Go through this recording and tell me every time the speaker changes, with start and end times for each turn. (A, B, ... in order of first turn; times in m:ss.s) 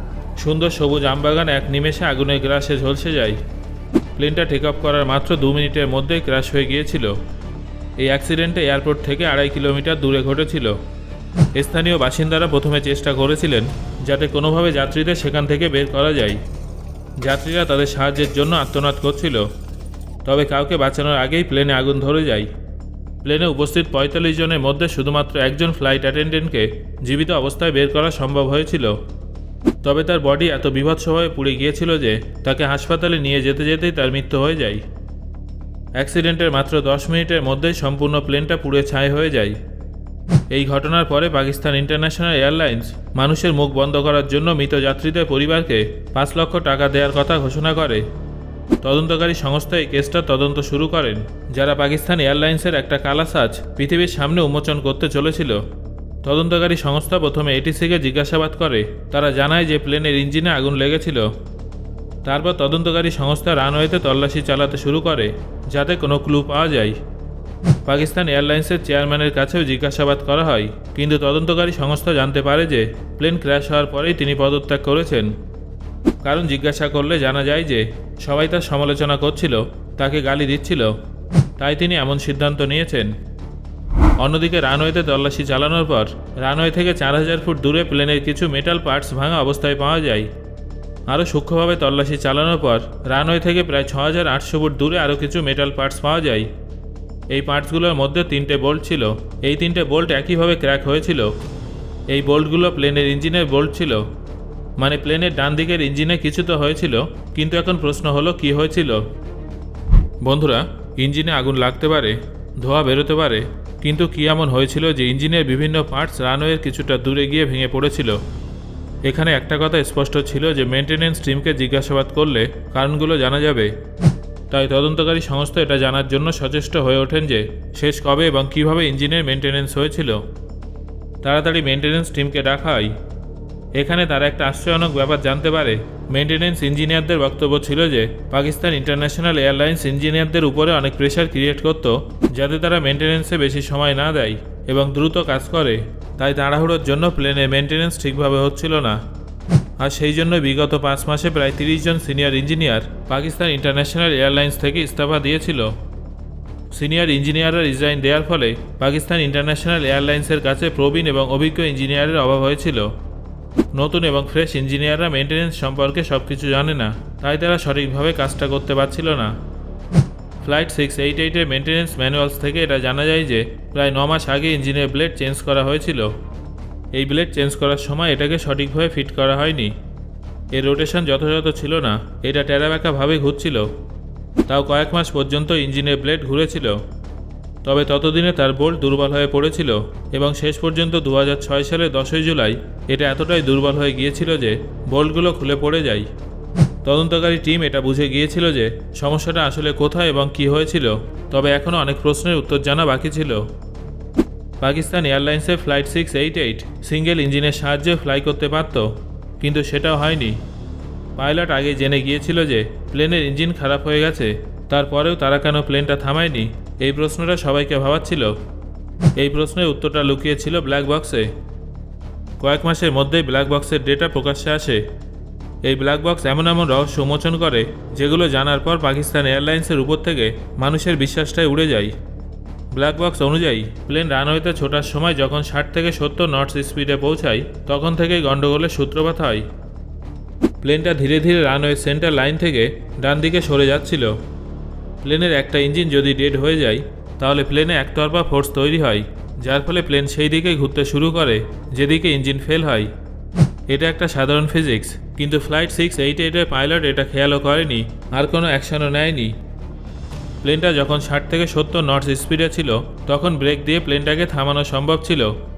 0:00.4-0:03.4 A
0:04.2-0:07.2 A
0:08.0-0:10.8 A
0:11.6-0:16.4 A
0:17.2-0:19.5 A
0:20.2-0:22.5 A
0:23.2-0:29.0 A
0:29.8-0:34.8 A
0:36.0-0:39.6 A
0:40.5-0:48.1 A
0:48.8-0:55.6 A
0:56.2-1:01.3 A
1:02.2-1:07.0 A
1:07.8-1:15.3 A
1:16.2-1:20.9 A
1:21.6-1:23.1 A
1:24.2-1:30.3 A
1:31.1-1:36.5 A
1:37.3-1:41.3 A
1:42.1-1:44.0 A
1:44.8-1:49.0 A
1:50.2-1:58.2 A
1:59.0-2:03.7 A
2:04.5-2:10.2 A
2:11.2-2:12.9 A
2:13.8-2:29.0 A
2:29.8-2:35.7 A
2:36.7-2:42.9 A
2:43.7-2:49.3 A
2:50.4-2:56.1 A
2:56.9-2:59.7 A
3:00.5-3:03.7 A
3:04.5-3:06.8 A
3:07.6-3:16.1 A
3:16.8-3:23.5 A
3:24.6-3:30.4 A
3:31.2-3:38.3 A
3:39.2-3:41.3 A
3:42.4-3:44.8 A
3:45.6-3:51.9 A
3:52.7-3:59.4 A
4:00.6-4:04.1 A
4:05.0-4:12.9 A
4:13.7-4:19.3 A
4:20.4-4:25.3 A